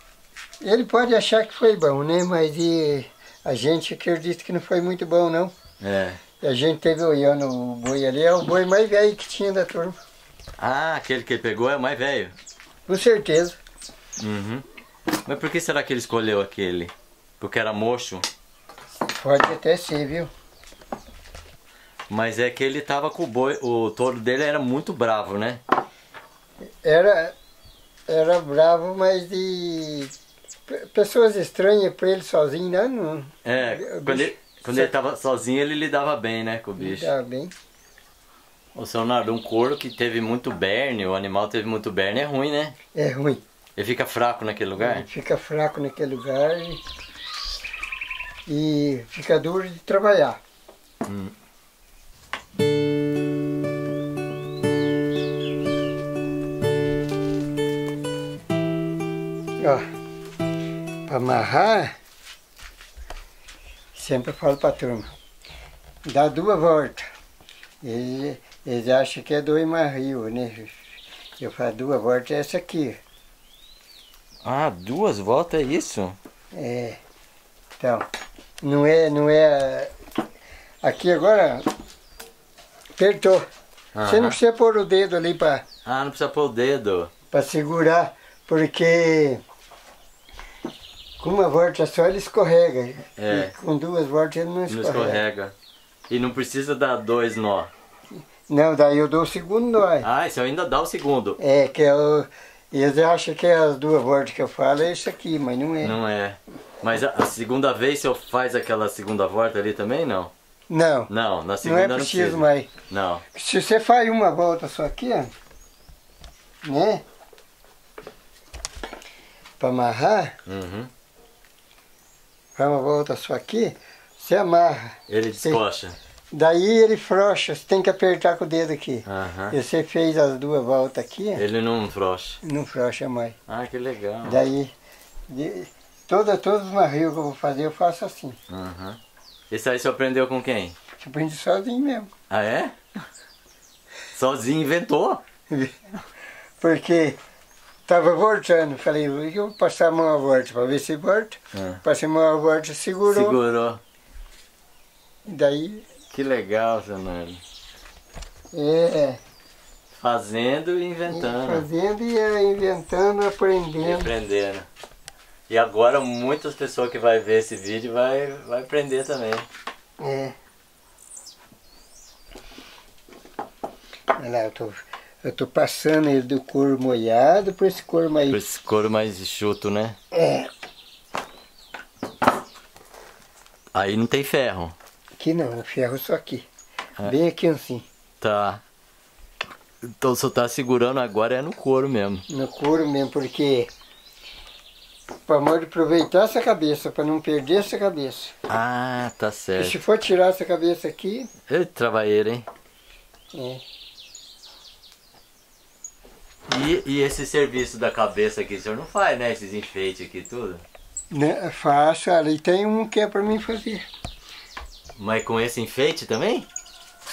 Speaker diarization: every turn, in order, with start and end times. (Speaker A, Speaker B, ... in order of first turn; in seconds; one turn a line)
Speaker A: 0.6-5.5
Speaker B: 5.8-6.2
Speaker A: 6.4-10.0
Speaker B: 10.6-12.3
Speaker A: 12.9-13.6
Speaker B: 14.2-14.6
Speaker B: 15.2-18.3
Speaker A: 19.1-20.3
Speaker B: 22.1-25.6
Speaker A: 26.6-27.3
Speaker A: 28.1-30.1
Speaker A: 30.7-34.9
Speaker B: 33.5-37.1
Speaker A: 36.8-37.5
Speaker B: 38.8-42.8
Speaker A: 43.0-43.4
Speaker B: 43.8-45.1
Speaker A: 44.8-46.8
Speaker A: 48.5-50.4
Speaker B: 51.0-51.3
Speaker A: 59.6-59.9
Speaker A: 61.1-61.9
Speaker A: 63.9-65.1
Speaker A: 66.1-67.1
Speaker A: 67.8-70.8
Speaker A: 71.4-73.0
Speaker B: 74.4-76.2
Speaker A: 76.5-77.0
Speaker A: 77.8-78.1
Speaker A: 78.6-79.9
Speaker A: 80.8-81.7
Speaker A: 83.0-83.5
Speaker B: 84.0-84.4
Speaker A: 84.0-85.7
Speaker B: 85.8-87.1
Speaker A: 87.3-89.4
Speaker A: 91.2-95.2
Speaker B: 93.2-93.5
Speaker B: 94.7-95.5
Speaker B: 96.1-97.7
Speaker A: 98.5-100.1
Speaker B: 100.0-101.4
Speaker A: 101.4-106.0
Speaker B: 105.8-110.3
Speaker A: 110.7-111.1
Speaker B: 111.1-113.2
Speaker A: 111.6-112.7
Speaker A: 113.3-115.3
Speaker A: 116.6-117.0
Speaker A: 119.6-120.3
Speaker B: 120.5-120.9
Speaker A: 122.6-125.6
Speaker B: 125.1-126.0
Speaker A: 126.3-131.4
Speaker B: 129.1-129.6
Speaker B: 131.4-132.4
Speaker A: 132.4-133.4
Speaker B: 133.5-134.4
Speaker A: 134.2-134.7
Speaker A: 135.3-138.4
Speaker B: 138.5-139.0
Speaker B: 139.5-140.8
Speaker A: 141.0-142.1
Speaker B: 142.3-143.1
Speaker B: 144.1-145.2
Speaker A: 145.5-145.9
Speaker A: 146.6-147.2
Speaker A: 147.9-153.4
Speaker B: 151.5-151.8
Speaker B: 153.1-153.8
Speaker A: 155.3-155.8
Speaker B: 156.1-157.4
Speaker A: 158.5-159.2
Speaker B: 159.9-161.7
Speaker A: 161.1-164.1
Speaker B: 163.8-164.7
Speaker B: 165.5-169.5
Speaker A: 170.0-170.4
Speaker A: 174.2-178.4
Speaker B: 178.3-180.0
Speaker A: 180.1-180.5
Speaker B: 183.7-184.8
Speaker A: 185.2-186.5
Speaker A: 187.0-187.9
Speaker B: 188.2-188.6
Speaker B: 189.8-192.2
Speaker A: 192.3-193.7
Speaker A: 195.3-198.3
Speaker B: 198.5-199.8
Speaker A: 199.6-201.3
Speaker B: 201.5-202.5
Speaker A: 203.3-203.6
Speaker B: 206.5-210.6
Speaker A: 211.1-213.9
Speaker B: 215.0-216.5